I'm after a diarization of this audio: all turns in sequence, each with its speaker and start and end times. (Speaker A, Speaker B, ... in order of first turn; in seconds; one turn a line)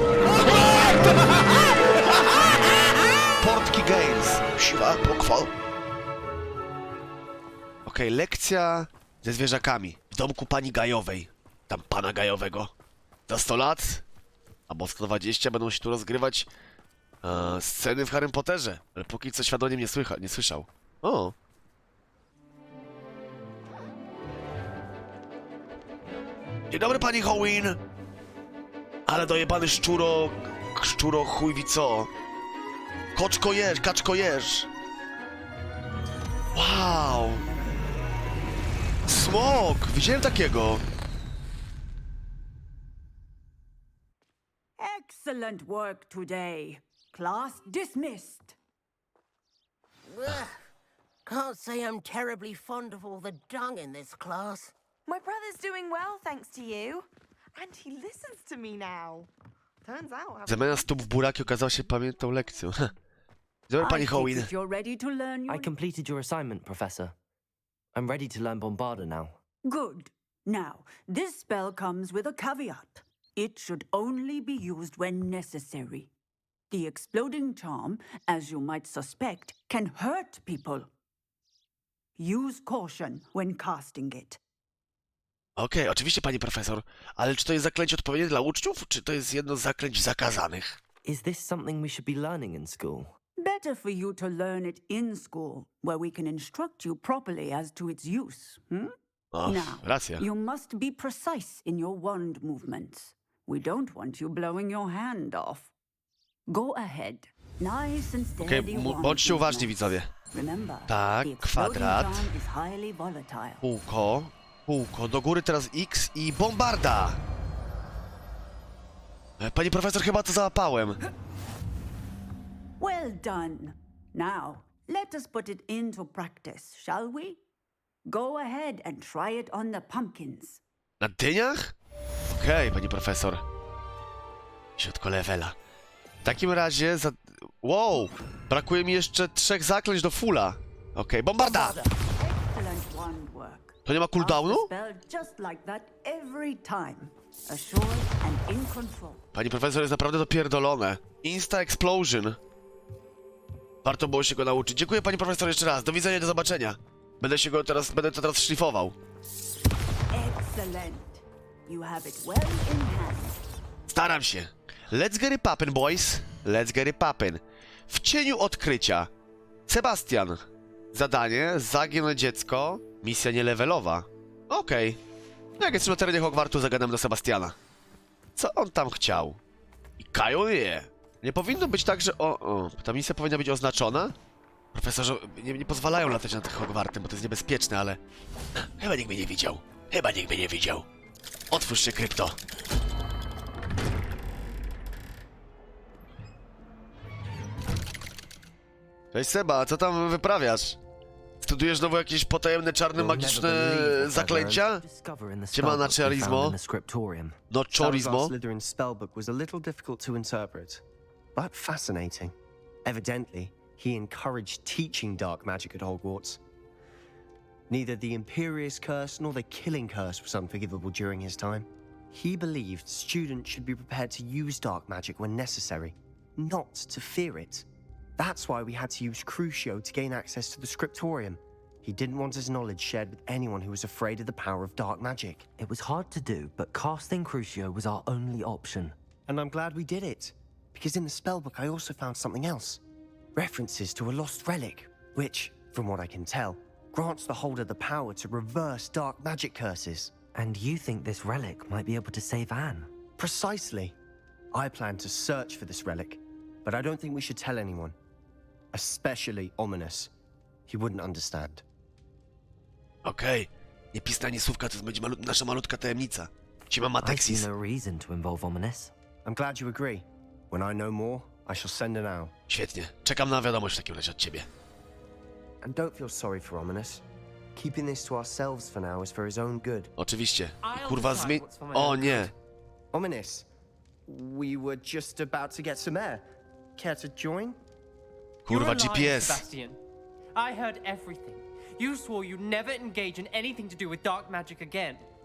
Speaker A: 0.4-2.6
Speaker A: 3.3-5.5
Speaker A: 7.8-12.7
Speaker A: 13.3-14.0
Speaker A: 14.7-16.5
Speaker A: 17.2-21.3
Speaker A: 26.7-27.8
Speaker A: 29.1-32.1
Speaker A: 33.1-34.7
Speaker A: 36.5-37.4
Speaker B: 37.4-38.0
Speaker A: 39.1-40.8
Speaker B: 44.8-48.6
Speaker C: 50.1-50.5
Speaker C: 51.2-54.7
Speaker D: 55.1-59.3
Speaker D: 59.8-61.0
Speaker A: 60.5-62.9
Speaker A: 63.7-64.5
Speaker B: 63.8-65.7
Speaker E: 65.5-67.1
Speaker E: 67.9-69.4
Speaker B: 69.7-76.1
Speaker B: 76.7-80.9
Speaker B: 82.2-84.4
Speaker A: 85.6-90.8
Speaker E: 91.0-93.1
Speaker B: 93.4-98.9
Speaker A: 99.3-100.2
Speaker B: 99.4-105.7
Speaker B: 106.5-113.6
Speaker A: 108.4-110.1
Speaker A: 110.9-112.3
Speaker A: 113.6-117.2
Speaker A: 119.4-121.0
Speaker B: 122.8-127.4
Speaker B: 128.1-130.6
Speaker A: 131.0-131.7
Speaker A: 132.3-133.4
Speaker A: 134.8-135.6
Speaker A: 136.2-141.8
Speaker B: 141.4-149.2
Speaker A: 143.8-144.7
Speaker A: 149.3-152.4
Speaker A: 153.8-158.9
Speaker B: 160.1-163.4
Speaker A: 163.9-169.1
Speaker A: 169.7-175.0
Speaker A: 175.6-177.6
Speaker A: 178.3-179.4
Speaker A: 180.0-184.1
Speaker A: 184.7-188.0
Speaker A: 188.6-190.9
Speaker A: 191.5-192.3
Speaker A: 199.1-200.8
Speaker A: 201.4-204.8
Speaker E: 202.9-207.4
Speaker A: 205.5-206.6
Speaker A: 207.5-208.3
Speaker F: 207.7-210.8
Speaker F: 211.3-212.3
Speaker F: 212.8-216.4
Speaker F: 217.7-227.7
Speaker F: 228.2-235.4
Speaker E: 235.6-238.9
Speaker F: 239.3-242.8
Speaker F: 243.3-250.1
Speaker E: 250.3-252.9
Speaker F: 253.2-253.9
Speaker F: 254.5-257.9
Speaker F: 258.7-260.1
Speaker F: 260.7-261.6
Speaker A: 263.0-267.5
Speaker E: 267.0-268.9
Speaker F: 269.2-272.3
Speaker A: 272.5-274.5
Speaker F: 275.6-277.0
Speaker F: 277.5-279.9
Speaker A: 280.0-282.3
Speaker G: 280.6-282.3
Speaker F: 282.9-283.4
Speaker F: 284.1-286.2
Speaker F: 286.8-287.6
Speaker A: 288.4-289.5
Speaker G: 288.5-289.8
Speaker G: 290.4-295.0